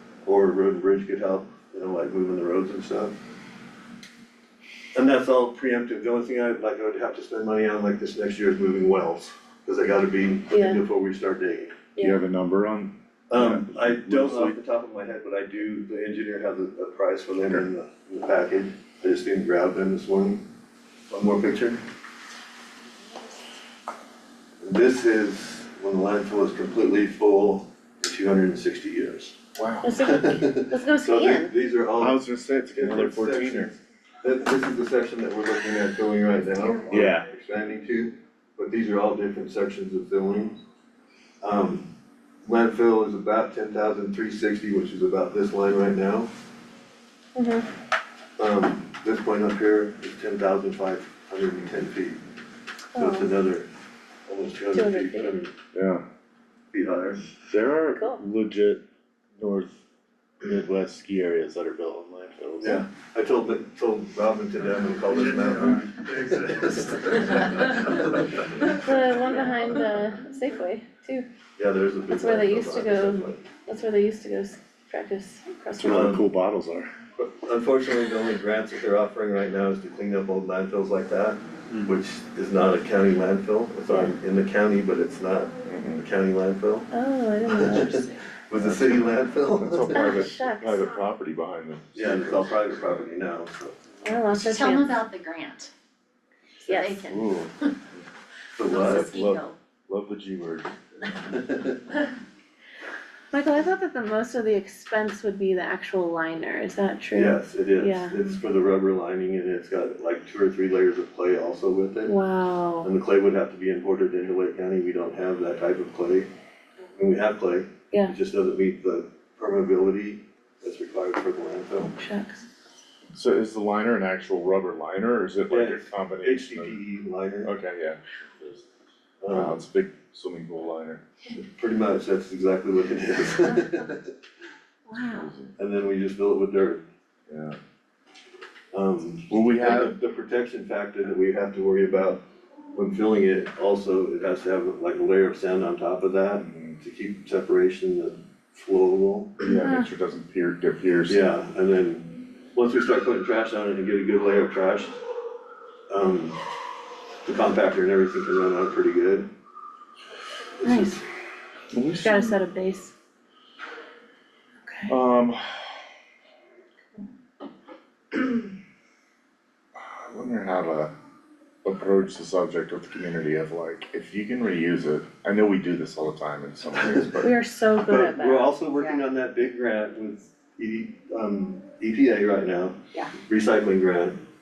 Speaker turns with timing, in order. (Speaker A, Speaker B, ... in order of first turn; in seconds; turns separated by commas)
Speaker A: 0.2-3.2, Speaker A: 5.0-11.8, Speaker B: 10.5-10.8, Speaker B: 12.0-12.2, Speaker C: 12.0-14.6, Speaker A: 13.3-20.5, Speaker A: 21.1-21.8, Speaker A: 24.6-29.4, Speaker C: 29.6-29.9, Speaker B: 29.8-31.5, Speaker A: 30.0-32.2, Speaker C: 32.0-33.8, Speaker A: 32.7-40.6, Speaker C: 36.9-37.3, Speaker A: 41.4-41.9, Speaker A: 42.5-46.3, Speaker B: 47.4-47.7, Speaker A: 48.4-52.2, Speaker B: 52.9-53.3, Speaker A: 53.0-53.7, Speaker A: 54.3-55.5, Speaker B: 54.7-55.4, Speaker C: 55.7-56.0, Speaker A: 56.7-57.2, Speaker C: 57.5-58.8, Speaker B: 58.0-58.2, Speaker C: 59.4-59.8, Speaker C: 60.4-62.8, Speaker A: 62.6-68.8, Speaker C: 65.7-66.8, Speaker B: 68.7-71.3, Speaker A: 71.6-73.4, Speaker B: 72.1-76.2, Speaker C: 75.8-76.9, Speaker A: 75.8-76.2, Speaker A: 77.2-86.9, Speaker C: 85.7-86.0, Speaker B: 86.9-88.2, Speaker A: 87.5-90.2, Speaker C: 88.6-88.9, Speaker C: 89.6-93.1, Speaker B: 89.9-91.0, Speaker A: 91.9-93.8, Speaker B: 94.0-95.0, Speaker D: 94.4-95.7, Speaker D: 96.6-97.6, Speaker B: 96.7-97.0, Speaker C: 97.1-97.5, Speaker A: 98.6-99.1, Speaker D: 98.7-99.6, Speaker C: 98.8-101.1, Speaker A: 101.3-101.8, Speaker B: 103.3-108.3, Speaker A: 107.1-112.2, Speaker B: 112.1-112.9, Speaker A: 112.8-116.3, Speaker A: 117.0-121.9, Speaker B: 121.8-122.4, Speaker C: 123.1-126.8, Speaker A: 125.5-127.5, Speaker C: 127.4-128.7, Speaker A: 129.2-129.6, Speaker C: 129.3-131.0, Speaker A: 131.3-134.1, Speaker B: 134.9-135.3, Speaker C: 135.2-135.5, Speaker A: 135.6-136.8, Speaker C: 137.3-137.6, Speaker A: 138.7-142.2, Speaker C: 139.3-139.9, Speaker A: 142.7-149.3, Speaker C: 146.4-146.8, Speaker C: 149.4-151.2, Speaker B: 149.5-149.9, Speaker A: 151.1-155.0, Speaker A: 155.9-156.4, Speaker A: 157.2-159.3, Speaker A: 160.6-161.0, Speaker B: 160.6-161.0, Speaker C: 161.7-162.4, Speaker B: 162.0-162.9, Speaker B: 164.7-164.9, Speaker C: 164.9-165.8, Speaker C: 169.8-170.9, Speaker C: 171.6-177.3, Speaker A: 176.8-177.1, Speaker B: 177.2-178.6, Speaker A: 177.8-184.2, Speaker D: 178.8-179.1